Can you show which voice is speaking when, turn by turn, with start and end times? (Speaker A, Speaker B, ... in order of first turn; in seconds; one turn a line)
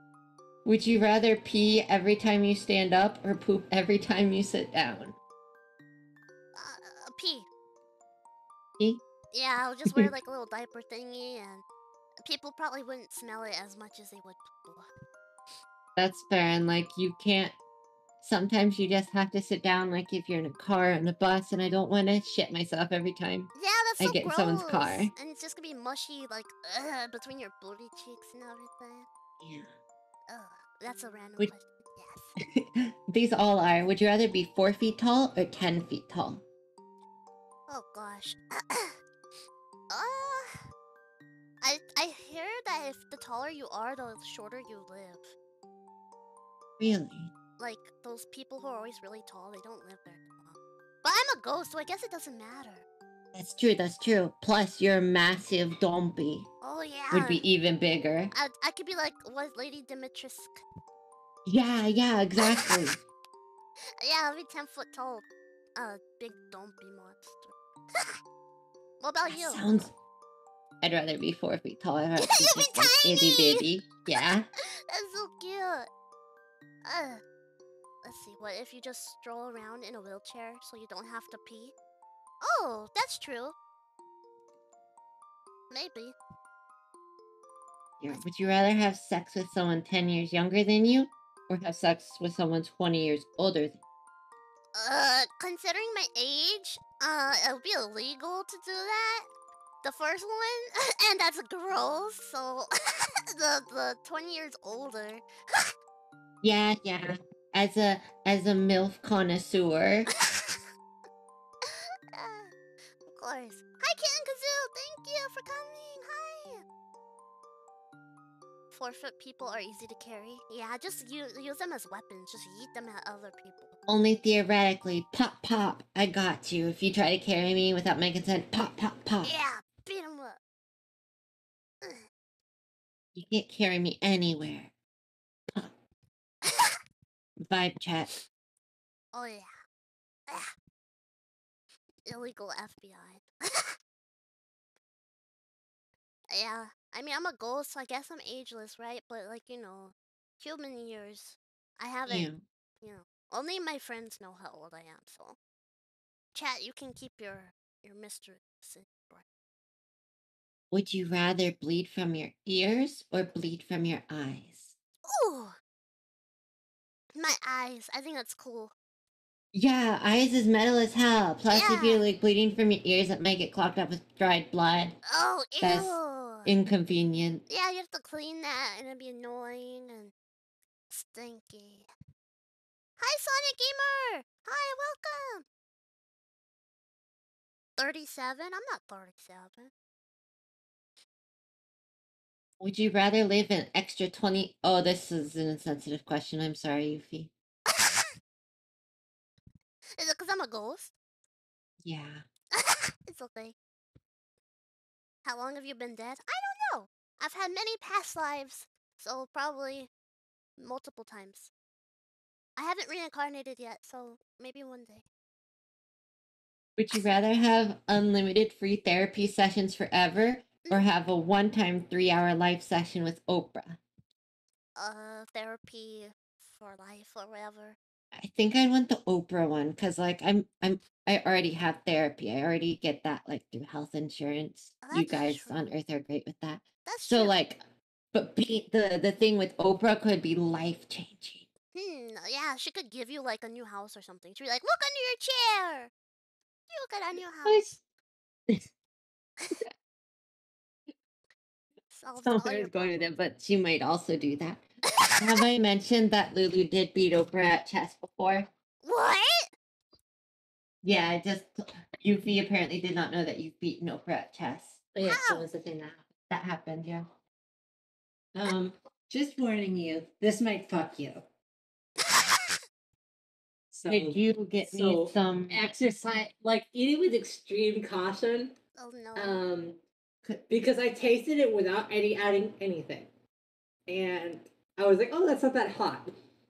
Speaker A: 0.7-5.2
Speaker B: 6.5-7.5
Speaker B: 9.3-11.6
Speaker B: 12.2-14.9
Speaker A: 16.0-17.6
Speaker A: 18.2-25.1
Speaker B: 23.6-29.1
Speaker A: 29.4-29.7
Speaker B: 30.3-32.4
Speaker A: 32.4-36.4
Speaker B: 37.7-39.0
Speaker B: 39.9-40.7
Speaker B: 41.6-45.4
Speaker A: 46.8-47.3
Speaker B: 47.6-52.9
Speaker A: 53.3-56.5
Speaker B: 56.6-57.4
Speaker A: 57.1-58.3
Speaker B: 58.3-60.6
Speaker A: 61.5-63.0
Speaker B: 62.4-62.7
Speaker B: 64.0-68.2
Speaker B: 69.0-69.8
Speaker A: 69.3-69.9
Speaker A: 70.8-74.5
Speaker B: 72.2-75.9
Speaker B: 76.8-77.2
Speaker B: 78.0-81.7
Speaker B: 82.4-83.5
Speaker B: 85.7-86.2
Speaker A: 88.0-93.8
Speaker B: 94.8-99.3
Speaker B: 99.8-105.7
Speaker A: 106.4-110.1
Speaker B: 110.1-110.7
Speaker B: 111.6-112.5
Speaker B: 113.1-116.6
Speaker B: 118.7-123.8
Speaker A: 123.9-129.3
Speaker B: 129.2-130.4
Speaker A: 133.2-134.7
Speaker B: 136.4-136.8
Speaker A: 137.5-138.2
Speaker B: 139.1-139.5
Speaker B: 142.1-143.8
Speaker B: 146.3-152.3
Speaker A: 152.1-152.4
Speaker B: 152.8-155.4
Speaker B: 156.3-159.2
Speaker A: 160.7-164.8
Speaker B: 165.1-165.6
Speaker B: 167.2-168.7
Speaker A: 169.5-175.0
Speaker B: 171.5-172.0
Speaker B: 175.1-176.6
Speaker A: 175.6-177.4
Speaker B: 177.5-180.1
Speaker B: 180.9-181.9
Speaker B: 183.0-185.4
Speaker B: 187.8-189.7
Speaker A: 192.6-197.3
Speaker B: 197.7-198.2
Speaker B: 200.0-200.9
Speaker A: 201.8-202.3
Speaker B: 202.5-203.6
Speaker B: 205.2-209.9
Speaker B: 210.6-211.5
Speaker B: 212.6-215.1
Speaker A: 216.8-223.8
Speaker B: 224.8-227.8
Speaker A: 228.1-237.6
Speaker B: 234.8-235.7
Speaker B: 236.9-237.3
Speaker A: 238.1-241.5
Speaker B: 241.7-245.9
Speaker B: 246.7-247.8
Speaker A: 247.4-247.8
Speaker B: 251.9-253.1
Speaker A: 252.2-254.6
Speaker B: 254.9-255.4
Speaker A: 255.2-258.5
Speaker B: 258.8-259.5
Speaker A: 260.8-265.3
Speaker C: 264.9-266.1
Speaker B: 265.1-265.5
Speaker A: 266.3-267.1
Speaker C: 268.4-271.2
Speaker B: 272.0-272.6
Speaker C: 273.7-278.6
Speaker A: 273.9-275.7
Speaker B: 278.8-279.4
Speaker C: 279.2-279.8
Speaker C: 280.5-283.1
Speaker C: 283.9-286.1